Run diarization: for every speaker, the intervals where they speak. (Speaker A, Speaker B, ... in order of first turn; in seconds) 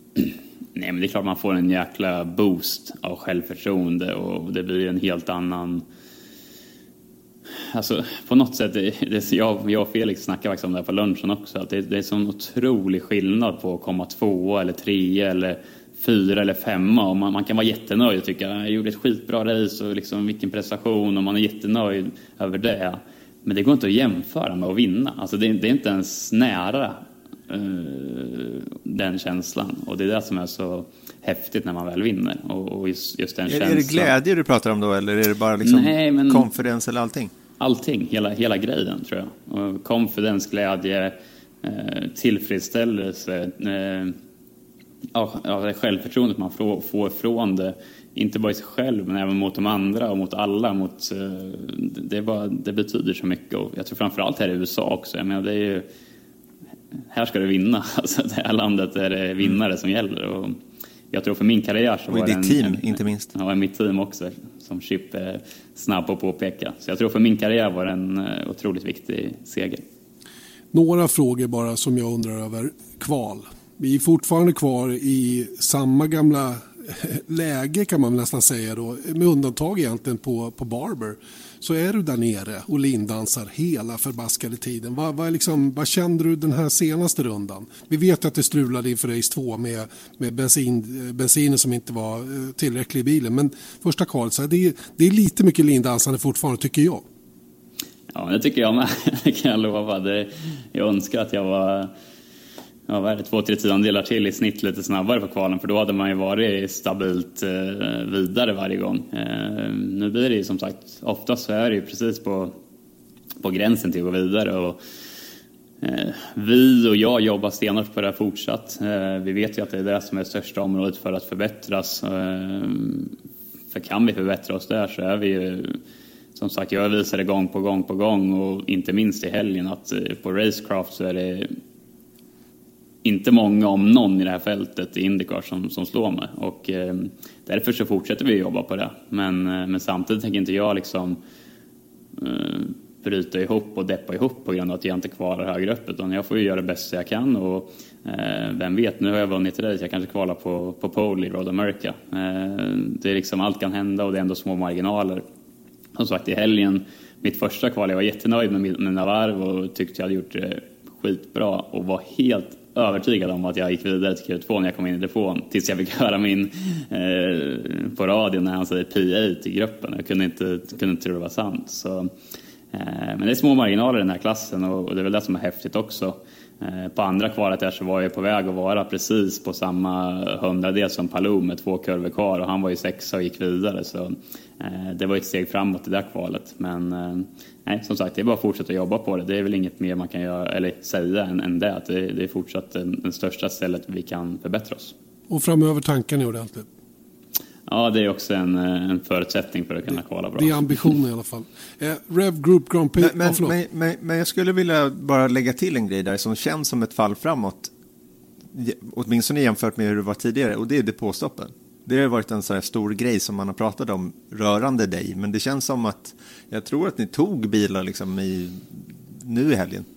Speaker A: 0.2-5.8, 7.6-34.1, 35.6-36.5, 37.6-44.2, 45.1-55.9, 57.1-60.6, 61.1-69.8, 98.1-101.9, 102.9-112.6, 113.4-114.8, 115.8-123.1, 123.7-125.8, 126.3-131.6, 133.0-141.2, 142.2-155.2, 156.0-172.1, 172.7-194.9, 197.7-200.9
Speaker B: 33.5-37.3, 62.1-63.3, 203.0-207.7, 208.5-219.9
Speaker C: 70.7-97.0, 195.3-196.7, 200.4-203.6